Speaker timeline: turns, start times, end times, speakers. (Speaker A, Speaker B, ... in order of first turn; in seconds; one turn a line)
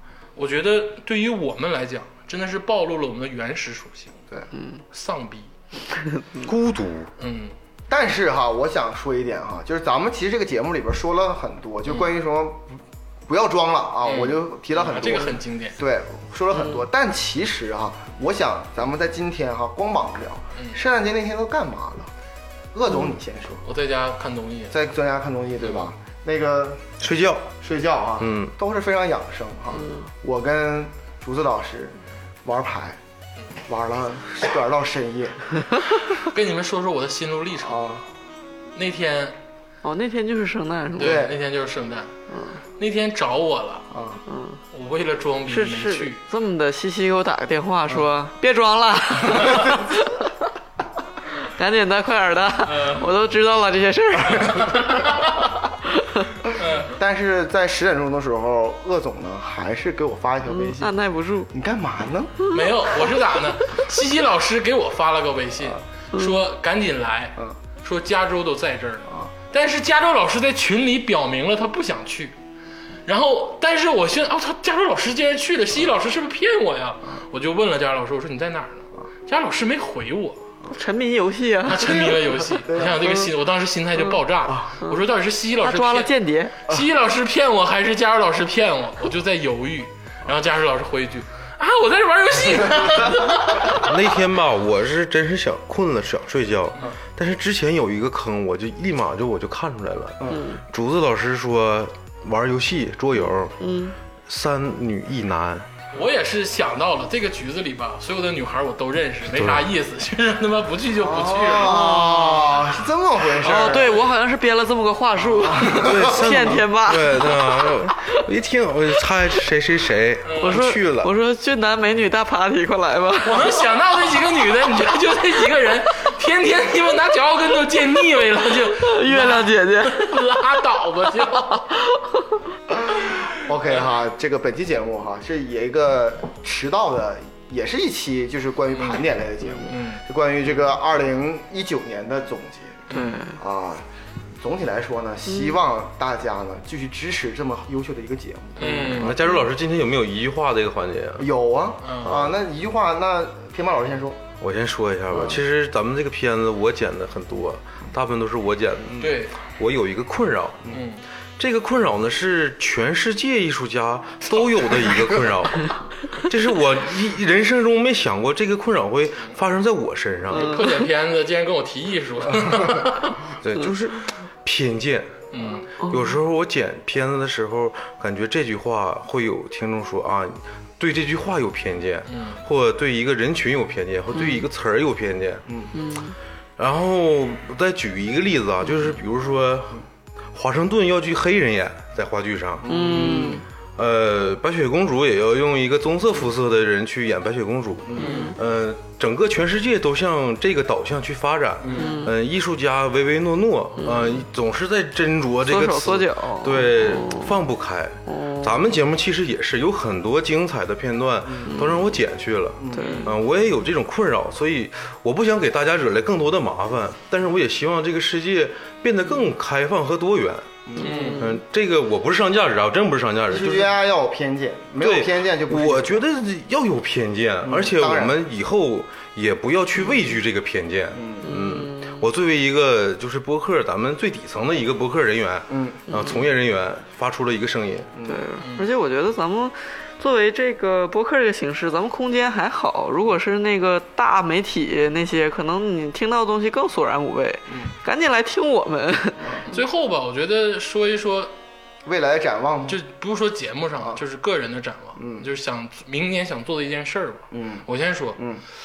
Speaker A: 0.3-4.2
Speaker B: 4.5-4.8
Speaker A: 4.9-5.5
Speaker C: 6.4-7.1
Speaker A: 7.2-7.5
Speaker D: 7.9-12.8
Speaker D: 13.3-22.1
Speaker A: 14.0-15.8
Speaker D: 22.7-23.6
Speaker A: 23.6-24.7
Speaker D: 24.7-26.9
Speaker A: 25.6-25.9
Speaker C: 27.0-27.4
Speaker D: 27.6-33.0
Speaker C: 28.2-28.5
Speaker B: 29.8-30.1
Speaker D: 33.6-35.5
Speaker A: 36.1-37.9
Speaker D: 37.6-38.0
Speaker A: 38.7-39.4
Speaker B: 39.8-41.2
Speaker D: 41.0-41.4
Speaker A: 41.0-42.1
Speaker B: 42.3-42.6
Speaker A: 42.8-43.9
Speaker D: 43.9-44.2
Speaker B: 44.3-44.6
Speaker A: 44.7-46.2
Speaker B: 45.5-50.2
Speaker B: 51.4-54.8
Speaker A: 52.6-53.1
Speaker A: 54.5-55.3
Speaker A: 56.5-56.9
Speaker D: 56.9-60.9
Speaker B: 60.5-61.5
Speaker D: 61.5-62.5
Speaker A: 62.5-72.3
Speaker A: 73.0-80.4
Speaker B: 80.7-82.0
Speaker A: 81.7-93.9
Speaker D: 81.9-83.2
Speaker B: 85.6-86.6
Speaker C: 93.6-103.5
Speaker B: 100.3-100.6
Speaker B: 103.6-104.0
Speaker C: 104.3-105.7
Speaker A: 105.9-112.7
Speaker C: 109.2-109.7
Speaker D: 111.0-114.0
Speaker B: 111.6-112.4
Speaker B: 113.4-118.2
Speaker D: 115.4-116.6
Speaker C: 115.6-121.1
Speaker A: 120.2-120.6
Speaker B: 120.4-123.5
Speaker A: 123.2-131.7
Speaker B: 128.7-130.2
Speaker B: 131.7-132.1
Speaker D: 132.7-143.8
Speaker A: 138.7-139.0
Speaker A: 139.7-140.0
Speaker B: 142.9-143.4
Speaker D: 144.4-149.3
Speaker A: 148.6-149.2
Speaker B: 148.7-149.0
Speaker C: 148.9-151.3
Speaker D: 151.2-154.2
Speaker A: 151.8-152.3
Speaker C: 154.4-160.8
Speaker D: 155.1-155.4
Speaker A: 159.0-159.3
Speaker A: 160.7-161.0
Speaker C: 161.4-170.6
Speaker A: 164.3-165.0
Speaker A: 170.3-173.3
Speaker C: 173.4-175.3
Speaker A: 175.3-175.7
Speaker C: 175.8-185.4
Speaker A: 182.1-182.4
Speaker B: 184.1-184.4
Speaker B: 185.7-186.2
Speaker C: 186.6-189.8
Speaker C: 190.3-220.6
Speaker D: 192.6-193.4
Speaker B: 192.7-193.4
Speaker D: 197.9-198.3
Speaker B: 198.0-198.3
Speaker B: 201.7-202.1
Speaker B: 203.8-204.2
Speaker B: 205.4-207.3
Speaker B: 208.1-208.7
Speaker B: 211.5-211.8
Speaker D: 212.6-213.0
Speaker B: 212.7-213.1
Speaker D: 220.7-220.9
Speaker B: 220.8-221.4
Speaker A: 220.8-221.2
Speaker C: 221.2-223.8
Speaker D: 223.3-226.0
Speaker C: 224.8-237.9
Speaker D: 227.4-228.2
Speaker D: 230.9-231.4
Speaker B: 231.2-232.1
Speaker D: 235.5-236.0
Speaker D: 237.9-238.2
Speaker B: 238.0-249.4
Speaker A: 249.5-251.3
Speaker D: 251.8-252.8
Speaker A: 252.7-258.2
Speaker D: 255.0-255.3
Speaker D: 257.3-257.6
Speaker D: 258.2-258.4